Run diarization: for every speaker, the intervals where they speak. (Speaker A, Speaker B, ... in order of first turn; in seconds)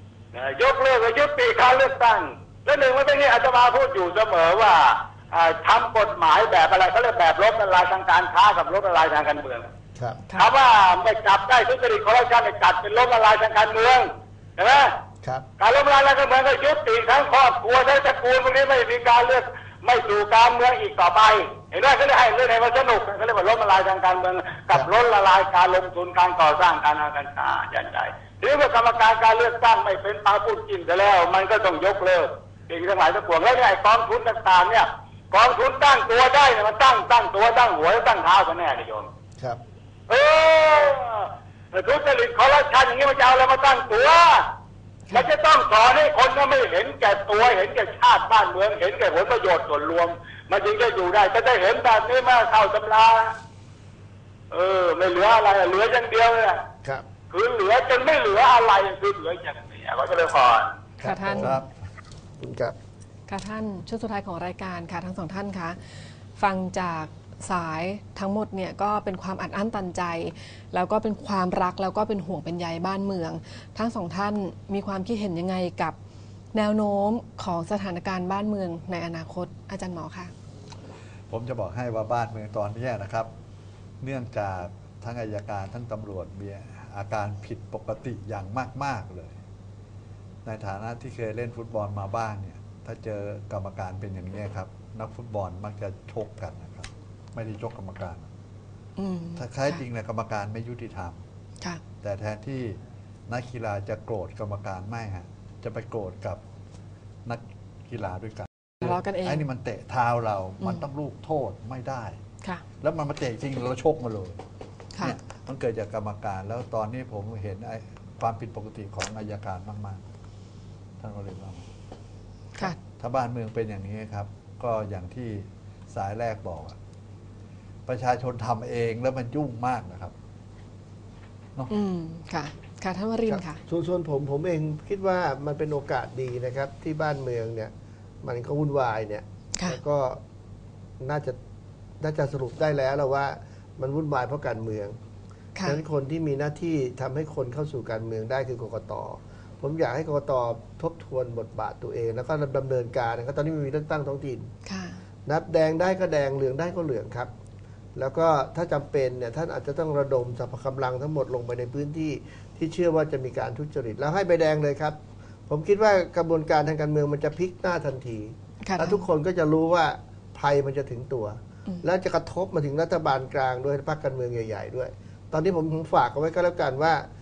Speaker A: 0.3-9.7, 10.4-15.0, 15.6-39.1, 40.1-44.5, 45.2-53.4, 54.5-56.7, 57.3-60.8
Speaker B: 10.0-10.2, 61.0-61.5, 62.4-62.7, 133.3-137.7, 138.2-140.2, 141.0-141.4, 142.0-144.9, 145.6-154.5, 155.2-157.3, 157.9-177.1
Speaker C: 61.0-61.6, 63.3-76.0, 76.5-80.3, 99.0-99.8, 108.8-109.4, 131.7-133.6, 154.7-155.0, 168.6-169.0
Speaker D: 61.4-61.7, 81.3-83.3, 84.0-89.4, 90.4-98.3, 99.3-101.2, 102.0-106.4, 107.2-112.2, 112.8-114.4, 115.0-120.0, 121.0-121.7, 122.6-126.8, 127.8-130.2